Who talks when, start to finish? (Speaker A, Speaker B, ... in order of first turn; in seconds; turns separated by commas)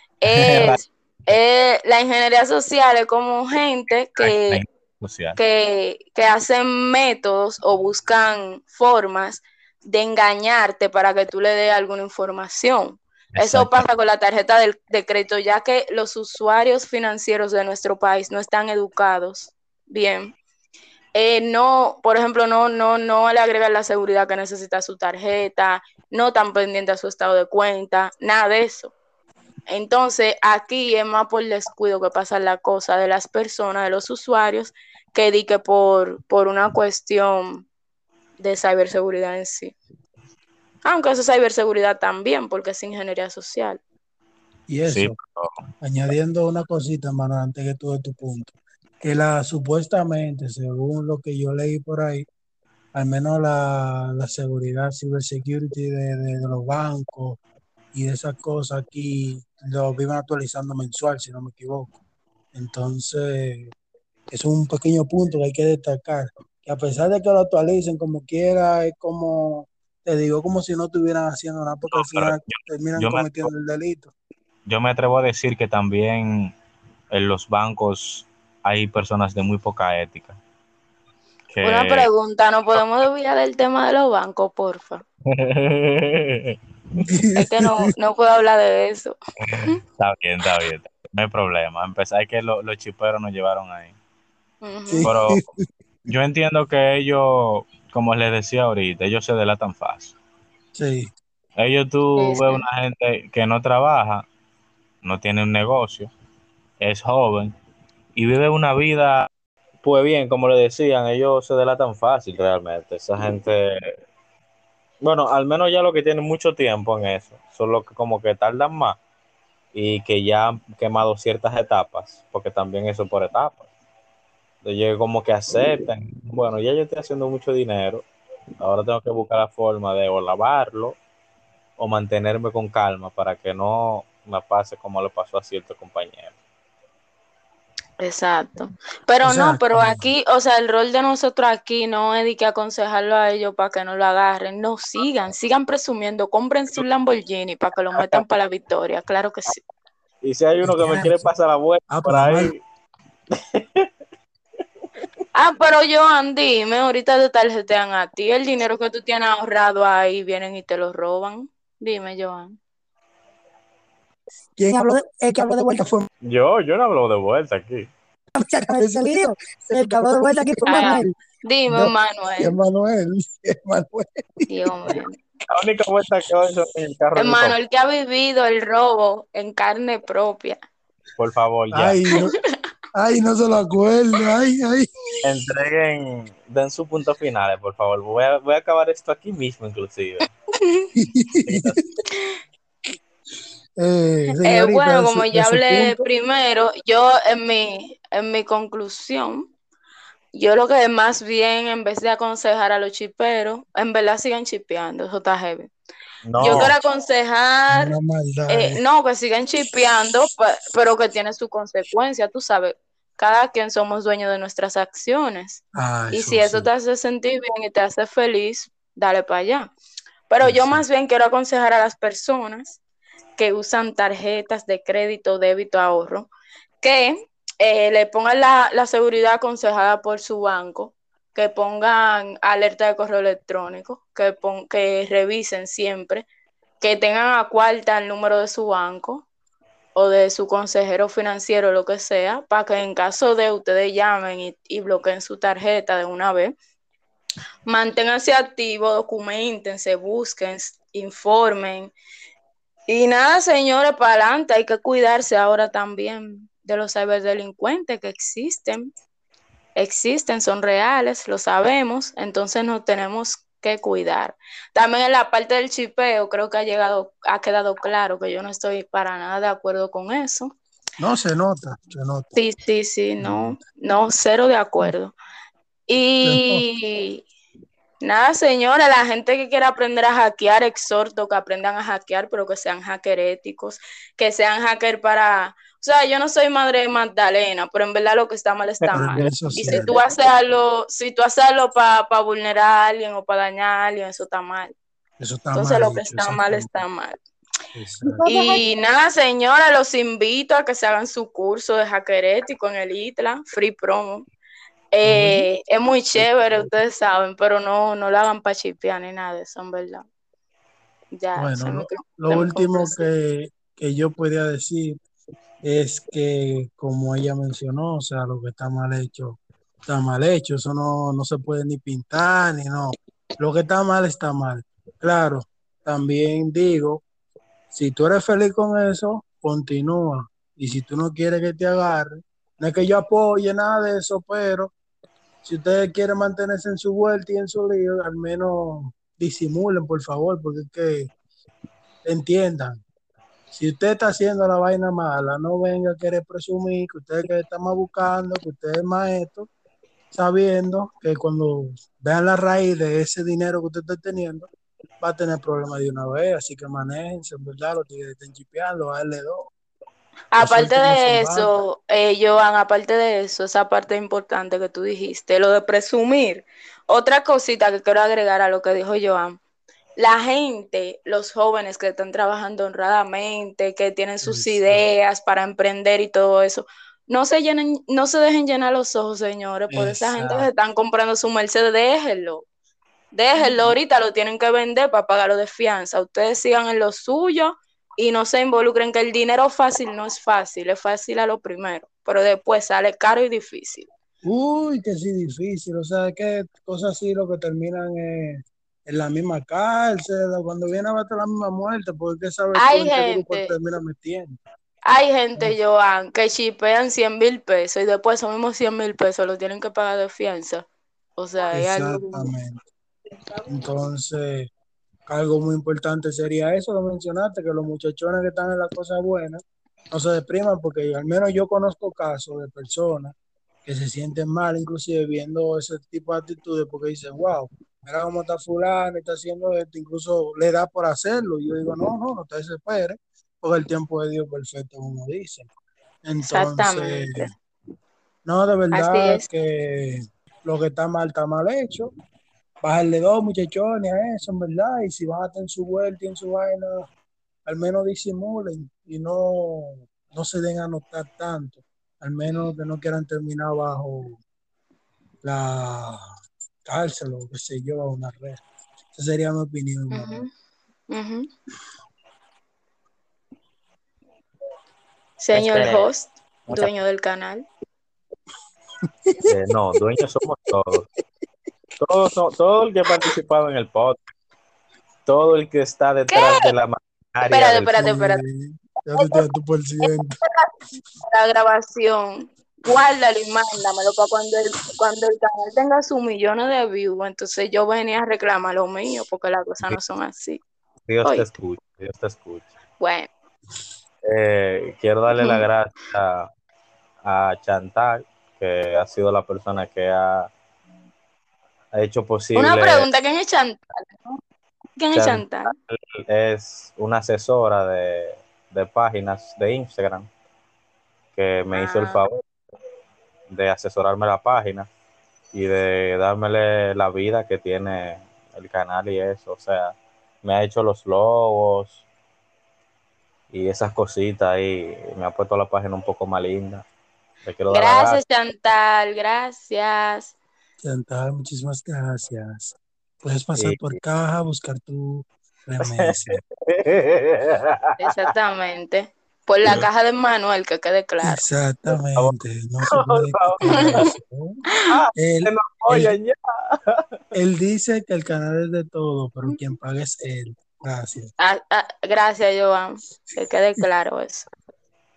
Speaker A: 0.2-4.6, Speaker B: 0.3-0.8, Speaker B: 4.2-5.4, Speaker A: 5.4-20.3, Speaker B: 13.3-13.8, Speaker A: 21.1-28.9, Speaker A: 29.7-37.7, Speaker A: 38.4-39.8, Speaker A: 40.9-43.8, Speaker C: 44.7-45.1, Speaker B: 44.8-45.6, Speaker C: 45.8-52.3, Speaker C: 53.0-57.4, Speaker C: 57.9-62.0, Speaker C: 62.5-63.7, Speaker C: 64.3-74.1, Speaker B: 71.9-73.5, Speaker B: 74.7-76.5, Speaker B: 77.1-80.4, Speaker B: 81.5-82.1, Speaker A: 81.6-85.0, Speaker B: 85.3-86.6, Speaker C: 87.0-87.9, Speaker A: 87.4-89.8, Speaker B: 89.5-93.9, Speaker A: 94.6-95.1, Speaker C: 94.9-95.6, Speaker B: 95.0-95.4, Speaker B: 96.1-100.2, Speaker C: 100.8-101.1, Speaker B: 101.6-104.2, Speaker A: 102.2-102.6, Speaker B: 105.0-106.1, Speaker B: 106.8-107.5, Speaker B: 108.2-109.3, Speaker B: 109.8-113.8, Speaker B: 115.0-119.0, Speaker B: 119.7-123.7, Speaker B: 124.6-128.0, Speaker B: 128.6-131.0, Speaker B: 131.8-136.3, Speaker A: 138.0-149.6, Speaker C: 139.2-140.0, Speaker B: 150.2-152.6, Speaker C: 150.6-151.3, Speaker C: 151.9-152.5, Speaker B: 153.3-153.9, Speaker A: 155.3-162.6, Speaker C: 164.6-166.1, Speaker B: 166.2-167.9, Speaker C: 168.4-171.1, Speaker A: 170.7-172.5, Speaker C: 171.7-175.0, Speaker A: 174.5-175.2, Speaker B: 175.5-177.6, Speaker A: 177.2-180.6, Speaker B: 181.2-182.0, Speaker C: 181.7-182.3, Speaker C: 182.9-184.9, Speaker B: 185.2-190.3, Speaker A: 190.6-190.9, Speaker C: 190.9-191.8, Speaker B: 191.5-191.8, Speaker A: 192.1-192.4, Speaker C: 193.8-196.0, Speaker A: 194.4-199.5, Speaker A: 200.3-205.7, Speaker B: 206.2-206.8, Speaker A: 206.4-207.9, Speaker C: 206.4-206.7, Speaker C: 207.7-208.8, Speaker A: 208.5-219.7, Speaker C: 215.8-216.7, Speaker A: 220.3-222.8, Speaker C: 220.4-220.8, Speaker A: 223.4-226.3, Speaker A: 226.8-236.3, Speaker A: 236.8-239.2, Speaker A: 239.9-246.5, Speaker A: 247.7-251.9, Speaker A: 252.9-258.9, Speaker A: 259.8-270.5, Speaker C: 271.0-272.3, Speaker A: 272.4-275.1, Speaker C: 273.2-273.5, Speaker A: 275.9-277.2, Speaker C: 276.2-276.6, Speaker A: 278.0-294.7, Speaker B: 288.9-289.8, Speaker C: 288.9-289.9, Speaker C: 295.2-296.7, Speaker A: 295.5-297.2, Speaker C: 297.8-298.3, Speaker A: 298.2-304.3, Speaker A: 304.9-310.1, Speaker C: 305.0-305.5, Speaker A: 311.2-313.1, Speaker C: 311.4-315.0, Speaker C: 315.6-327.0, Speaker C: 327.7-334.7, Speaker C: 335.4-341.1, Speaker C: 342.1-342.8, Speaker C: 343.5-349.5, Speaker C: 350.1-354.5, Speaker C: 355.0-359.5, Speaker A: 360.3-369.4, Speaker C: 360.4-361.5, Speaker A: 370.0-382.4, Speaker C: 374.2-374.8, Speaker C: 379.7-380.5, Speaker A: 383.1-393.9, Speaker C: 394.2-404.4, Speaker A: 402.5-403.5, Speaker A: 404.9-410.7, Speaker A: 411.2-412.3, Speaker C: 411.5-412.6, Speaker C: 413.5-414.5, Speaker C: 415.1-423.1, Speaker C: 423.6-435.5, Speaker C: 436.0-437.3, Speaker A: 436.2-437.3, Speaker C: 438.3-441.9, Speaker A: 438.7-439.2, Speaker C: 442.6-446.9, Speaker C: 447.5-454.2, Speaker A: 452.3-452.5, Speaker C: 455.2-456.1, Speaker C: 456.7-458.4, Speaker C: 458.9-460.2, Speaker A: 459.9-460.3, Speaker A: 460.9-461.3, Speaker A: 465.2-467.4, Speaker B: 465.3-465.9, Speaker B: 466.5-466.7, Speaker B: 469.3-470.9, Speaker B: 471.8-474.0, Speaker B: 475.1-477.9, Speaker A: 476.1-476.5, Speaker A: 477.3-478.2, Speaker C: 477.8-480.2, Speaker A: 478.9-479.2, Speaker A: 479.8-480.5, Speaker A: 481.1-490.4, Speaker B: 490.9-492.5, Speaker A: 492.8-493.1, Speaker B: 494.1-496.3, Speaker A: 495.2-495.4, Speaker B: 497.1-500.3, Speaker B: 501.8-502.9, Speaker A: 502.4-504.2, Speaker A: 504.8-505.5, Speaker B: 504.9-510.1, Speaker B: 511.1-512.2, Speaker A: 511.5-512.0, Speaker B: 513.3-514.7, Speaker B: 515.3-521.8, Speaker B: 523.3-526.6, Speaker B: 527.2-528.0, Speaker A: 527.5-530.1, Speaker C: 530.6-536.2, Speaker B: 533.4-533.8, Speaker B: 535.6-538.1, Speaker A: 537.8-541.2, Speaker C: 541.0-544.4, Speaker B: 542.0-543.9, Speaker A: 543.6-543.9, Speaker B: 544.7-546.8, Speaker C: 545.0-546.0, Speaker C: 547.1-551.1, Speaker A: 551.2-554.3